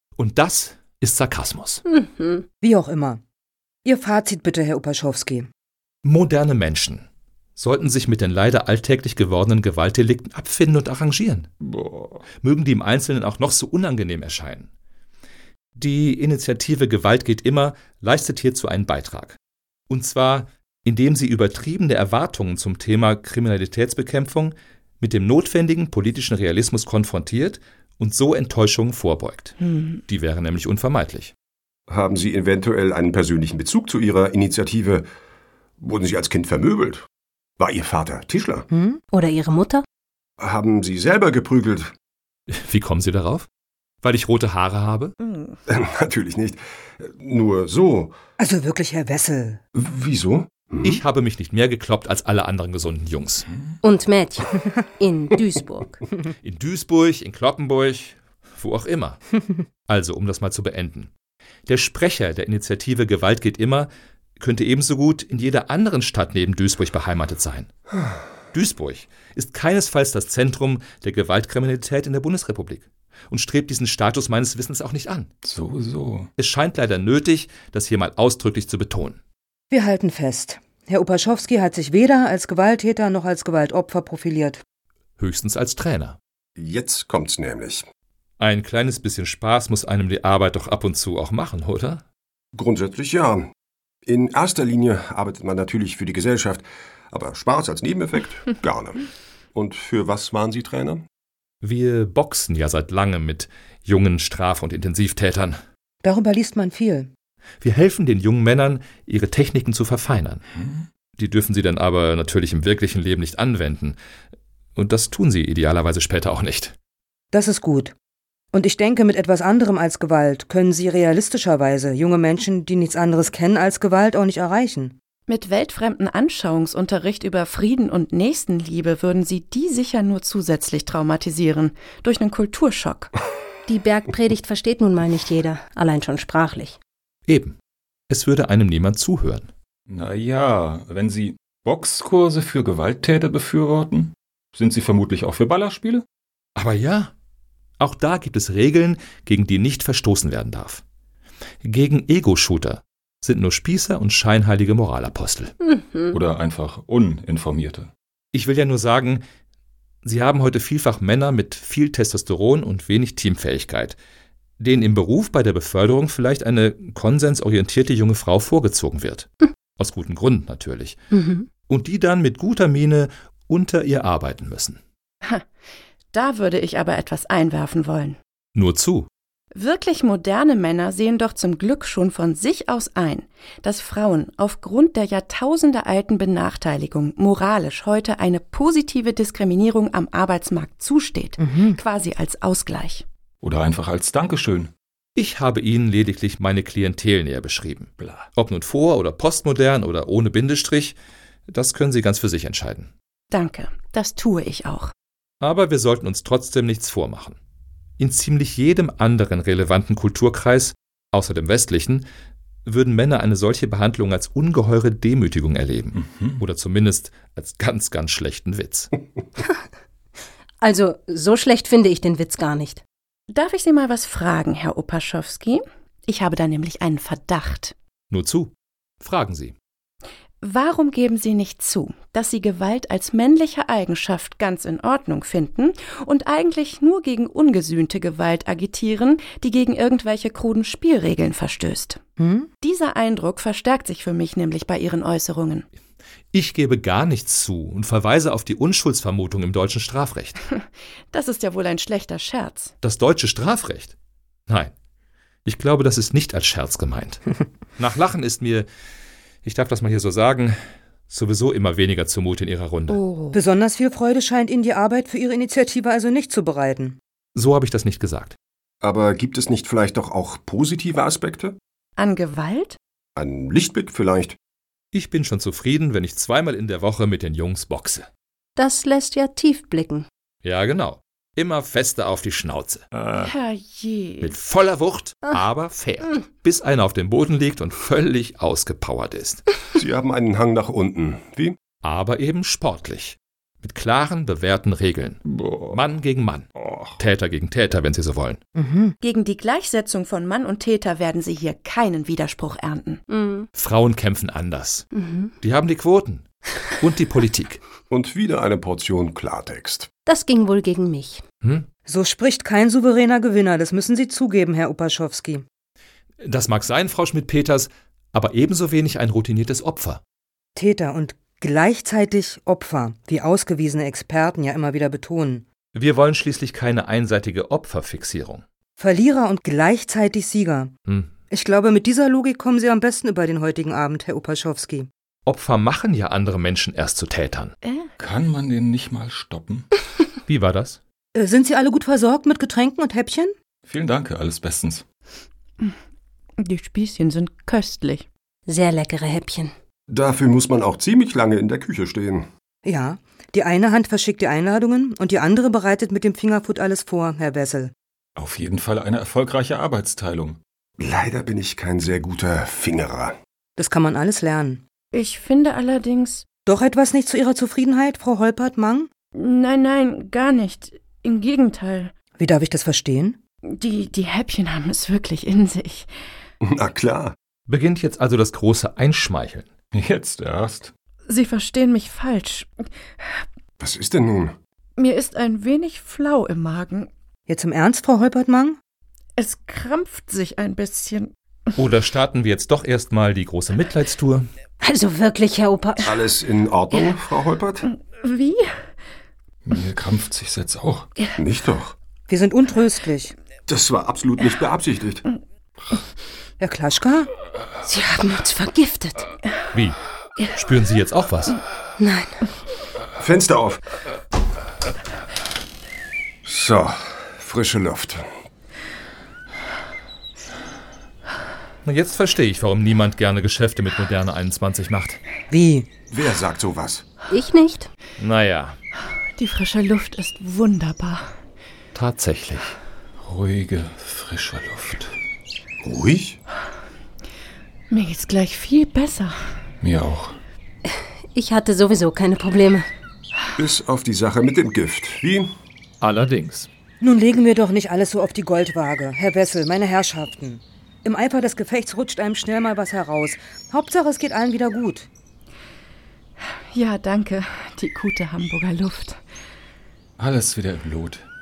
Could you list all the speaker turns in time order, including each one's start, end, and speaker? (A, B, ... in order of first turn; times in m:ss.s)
0:00.2-0:01.8 A
0:02.0-0:02.4 B
0:02.6-0:03.2 C
0:03.8-0:05.5 C
0:06.0-0:07.0 A
0:07.6-0:11.5 A
0:11.6-0:12.2 D
0:12.4-0:14.7 A
0:15.8-0:19.4 A
0:19.9-0:29.6 A
0:29.7-0:30.0 E
0:30.1-0:31.3 A
0:31.9-0:35.0 F
0:35.8-0:37.1 F
0:37.6-0:38.7 F
0:38.7-0:39.0 C
0:39.1-0:39.8 B
0:40.4-0:41.9 F
0:42.5-0:43.5 A
0:44.0-0:45.1 A
0:45.2-0:45.6 E
0:45.7-0:48.1 F
0:48.4-0:49.6 C
0:49.7-0:51.0 F
0:50.8-0:53.4 A
0:53.8-0:56.0 B
0:56.4-0:59.2 A
0:59.9-1:01.1 A
1:01.7-1:07.7 A
1:08.5-1:15.3 A
1:15.4-1:16.3 D
1:16.4-1:19.2 A
1:19.7-1:24.6 C
1:25.2-1:26.2 A
1:26.6-1:27.8 F
1:28.4-1:32.0 A
1:32.6-1:33.5 F
1:34.1-1:41.0 F
1:41.6-1:45.6 A
1:46.0-1:47.1 C
1:47.6-1:50.4 A
1:50.6-1:50.9 D
1:51.2-1:54.0 A
1:54.8-1:56.7 A
1:57.3-1:57.9 C
1:58.5-2:05.0 C
2:05.3-2:13.1 E
2:13.7-2:16.8 B
2:17.3-2:17.6 A
2:18.1-2:19.5 A
2:19.9-2:26.0 D
2:26.6-2:27.1 A
2:27.8-2:30.8 A
2:31.6-2:35.5 A
2:36.1-2:37.9 D
2:38.3-2:39.2 A
2:40.0-2:44.0 A
2:44.6-2:51.0 A
2:51.1-2:51.4 B
2:51.7-2:54.8 A
2:56.1-2:58.2 E
2:58.6-2:59.1 A
2:59.5-3:13.0 E
3:11.4-3:11.8 C
3:13.4-3:14.7 D
3:15.2-3:21.0 A
3:18.0-3:18.3 D
3:21.5-3:22.9 A
3:23.3-3:24.9 E
3:25.4-3:27.4 A
3:28.0-3:32.0 A
3:32.7-3:38.9 A
3:35.9-3:36.4 D
3:40.6-3:42.8 B
3:43.3-3:47.7 E
3:48.1-3:49.6 A
3:50.4-4:02.0 E
4:02.2-4:02.5 C
4:02.6-4:05.7 E
4:06.3-4:10.4 A
4:10.5-4:12.7 E
4:12.8-4:13.9 A
4:15.5-4:17.2 A
4:17.8-4:18.7 A
4:19.4-4:20.6 A
4:21.1-4:23.0 A
4:23.3-4:27.0 C
4:27.4-4:28.4 A
4:28.8-4:31.6 F
4:32.0-4:32.8 E
4:33.2-4:34.4 F
4:34.9-4:38.1 A
4:38.6-4:40.1 B
4:40.4-4:42.9 A
4:42.9-4:43.3 D
4:43.2-4:44.3 E
4:44.2-4:49.4 A
4:49.8-4:51.6 F
4:51.8-4:58.4 A
4:55.2-4:55.8 D
4:56.6-4:57.0 D
4:58.6-4:58.9 C
4:59.0-5:03.0 E
5:03.1-5:03.5 B
5:03.6-5:04.9 A
5:04.9-5:05.3 B
5:05.4-5:06.2 A
5:06.8-5:07.6 A
5:07.9-5:09.9 F
5:10.1-5:11.2 B
5:11.9-5:15.4 C
5:16.2-5:20.0 A
5:20.6-5:25.4 C
5:25.8-5:28.4 A
5:28.8-5:30.7 C
5:31.3-5:34.9 C
5:35.3-5:37.6 A
5:37.6-5:37.9 E
5:38.0-5:39.7 D
5:40.3-5:40.8 A
5:41.2-5:43.3 C
5:43.6-5:44.8 D
5:46.4-5:48.1 E
5:48.5-5:49.5 B
5:49.9-5:52.3 F
5:52.6-5:57.7 C
5:58.2-6:00.4 D
6:00.8-6:03.2 F
6:03.6-6:04.6 C
6:04.9-6:06.2 E
6:06.5-6:08.9 C
6:09.2-6:11.9 E
6:12.2-6:13.2 C
6:13.5-6:15.9 E
6:16.4-6:17.1 F
6:17.5-6:19.5 A
6:19.7-6:20.7 D
6:21.1-6:22.5 E
6:23.6-6:24.4 F
6:24.8-6:26.9 E
6:27.3-6:28.6 C
6:29.2-6:31.1 E
6:31.6-6:34.3 A
6:34.6-6:35.9 B
6:35.8-6:37.7 F
6:37.9-6:38.6 E
6:39.4-6:40.9 D
6:41.2-6:41.7 F
6:42.1-6:43.1 C
6:43.5-6:45.0 F
6:46.4-6:47.1 C
6:47.6-6:49.1 B
6:49.5-6:51.4 A
6:51.8-6:52.2 B
6:53.0-6:53.6 F
6:56.3-6:58.0 F
7:01.6-7:05.0 A
7:05.3-7:05.7 C
7:05.9-7:06.8 F
7:07.1-7:07.7 B
7:08.0-7:08.6 A
7:09.2-7:11.1 E
7:11.7-7:12.5 A
7:13.0-7:14.9 D
7:15.6-7:16.2 F
7:17.7-7:19.3 E
7:19.6-7:20.2 D
7:20.7-7:22.7 B
7:23.4-7:25.3 F
7:25.8-7:26.5 A
7:26.8-7:34.9 C
7:36.5-7:39.0 E
7:40.0-7:41.0 D